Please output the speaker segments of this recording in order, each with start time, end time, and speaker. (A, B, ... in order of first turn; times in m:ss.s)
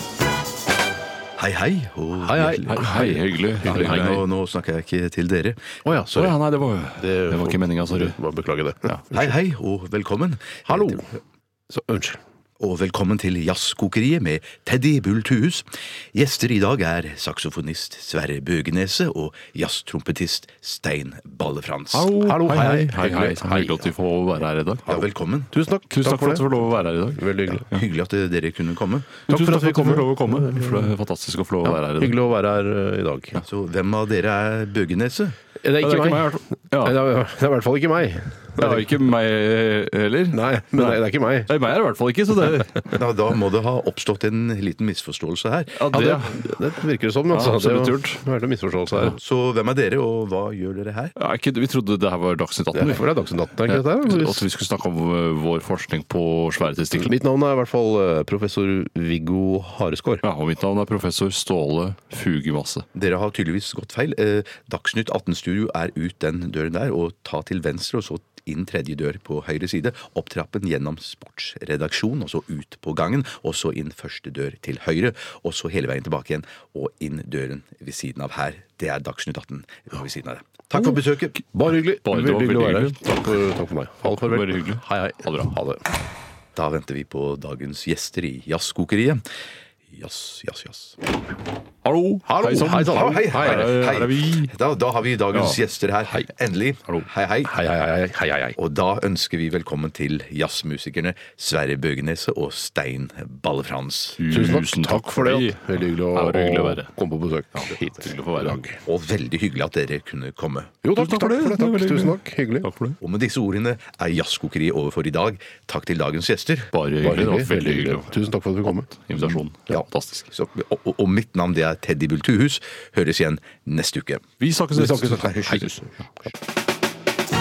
0:01.4-0:02.9 A
0:02.2-0:04.1 B
0:02.7-0:04.2 C
0:03.6-0:05.8 A
0:05.8-0:06.4 B
0:06.1-0:08.2 C
0:07.0-0:09.3 B
0:09.1-0:11.1 A
0:10.6-0:11.1 B
0:11.7-0:12.2 B
0:12.6-0:22.1 A
0:21.9-0:24.9 C
0:22.1-0:23.9 B
0:24.8-0:25.5 A
0:24.9-0:26.5 B
0:25.9-0:27.8 C
0:27.1-0:27.7 B
0:27.7-0:29.2 A
0:29.3-0:30.9 B
0:29.3-0:32.2 C
0:31.6-0:33.4 B
0:33.4-0:35.3 A
0:35.6-0:38.9 B
0:35.8-0:37.0 C
0:38.6-0:42.9 C
0:40.3-0:41.6 B
0:42.9-0:45.8 A
0:45.8-0:46.5 C
0:45.9-0:49.2 B
0:47.3-0:48.2 C
0:49.0-0:51.1 A
0:51.2-0:53.1 C
0:52.7-0:54.4 B
0:53.6-0:57.1 C
0:56.9-1:00.2 B
1:00.2-1:02.8 C
1:02.9-1:21.4 A
1:21.5-1:25.8 B
1:22.0-1:23.0 C
1:24.1-1:25.5 C
1:26.6-1:29.2 A
1:29.9-1:31.0 A
1:31.8-1:34.5 C
1:32.2-1:33.8 B
1:32.9-1:37.5 A
1:35.3-1:35.6 C
1:37.4-1:38.6 B
1:38.6-1:44.2 A
1:44.2-1:46.9 C
1:44.3-1:48.8 B
1:47.5-1:48.6 C
1:48.8-1:50.7 A
1:50.8-1:52.7 B
1:51.0-1:53.0 C
1:53.0-1:56.7 A
1:56.7-1:58.1 C
1:57.0-1:59.4 B
1:58.9-2:00.3 C
1:59.7-2:04.2 A
2:04.4-2:06.1 C
2:04.7-2:05.8 B